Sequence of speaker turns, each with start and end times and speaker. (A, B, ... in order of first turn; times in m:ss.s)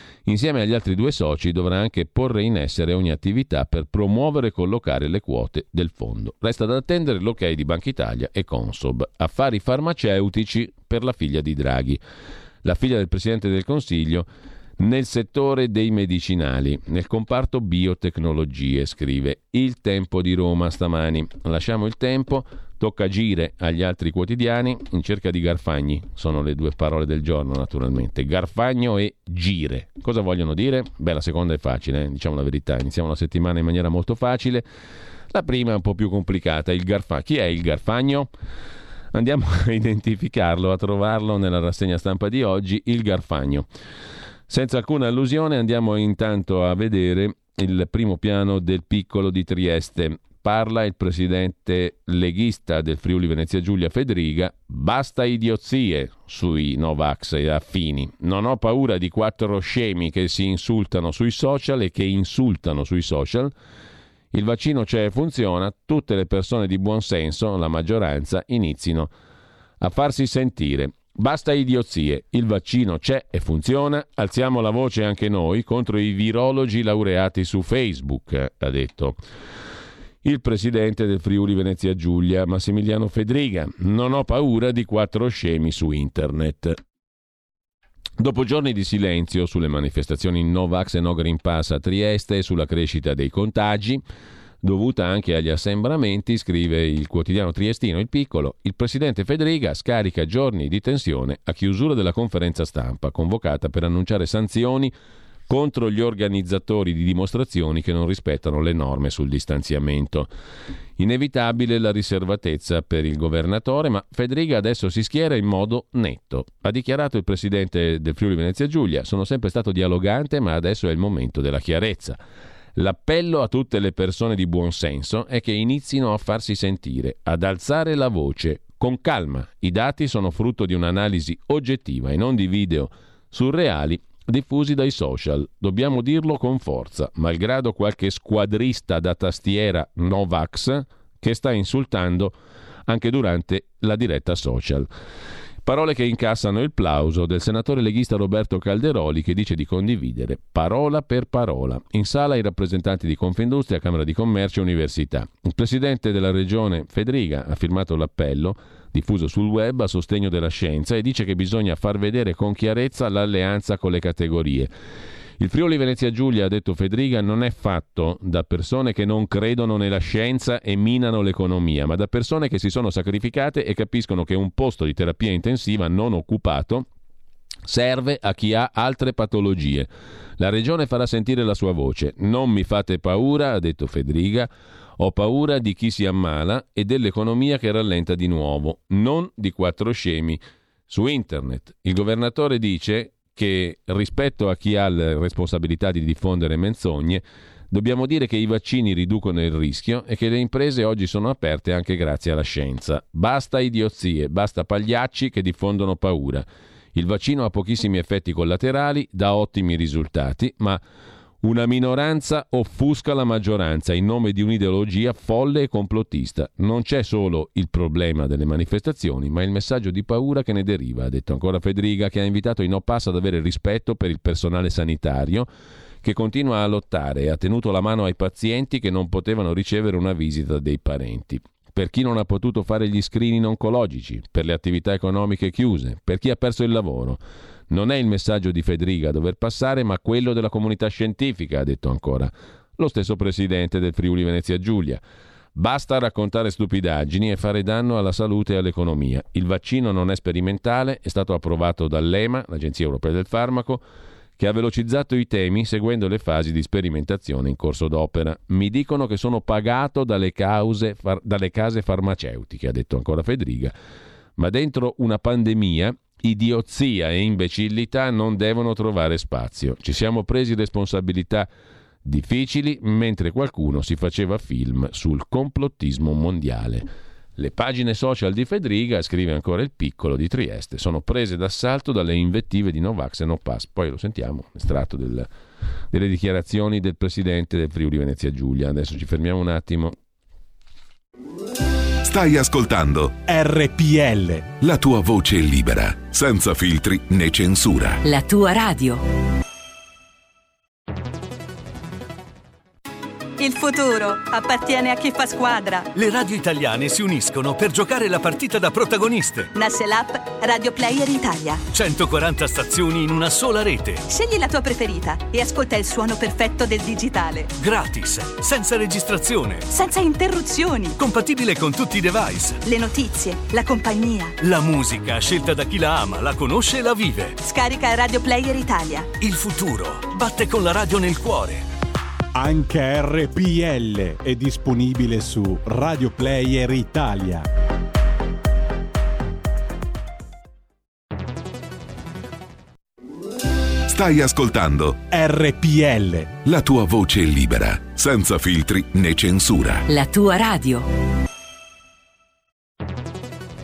0:00.2-0:12.0 A
0:12.6-0:14.3 A
0:14.8-0:34.7 A
0:35.3-0:38.3 A
0:39.1-0:43.7 A
0:44.5-1:03.5 A
1:04.3-1:09.1 A
1:09.8-1:19.2 A
1:20.2-1:26.8 A
1:28.2-1:34.0 A
1:34.6-1:44.9 A
1:45.5-1:50.3 A
1:51.0-2:02.2 A
2:02.8-2:22.4 A
2:22.9-2:24.9 A
2:25.6-2:44.7 A
2:45.4-2:56.9 A
2:57.7-3:30.8 A
3:31.4-3:45.5 A
3:46.0-4:05.0 A
4:05.6-4:13.8 A
4:14.4-4:23.7 A
4:24.4-4:31.5 A
4:32.0-4:45.3 A
4:45.9-4:50.0 A
4:52.0-4:53.2 B
4:53.3-4:54.5 C
4:54.6-4:58.0 B
4:58.0-4:59.0 D
5:03.4-5:05.9 E
5:05.9-5:09.5 F
5:09.5-5:11.6 E
5:11.7-5:14.1 F
5:14.1-5:17.5 E
5:17.6-5:19.7 F
5:19.7-5:21.0 E
5:21.0-5:22.6 F
5:22.6-5:24.4 E
5:24.4-5:27.4 F
5:27.4-5:29.1 E
5:29.2-5:31.7 F
5:32.3-5:37.5 C
5:43.9-5:45.0 B
5:45.1-5:46.3 C
5:46.4-5:49.9 B
5:49.9-5:50.9 D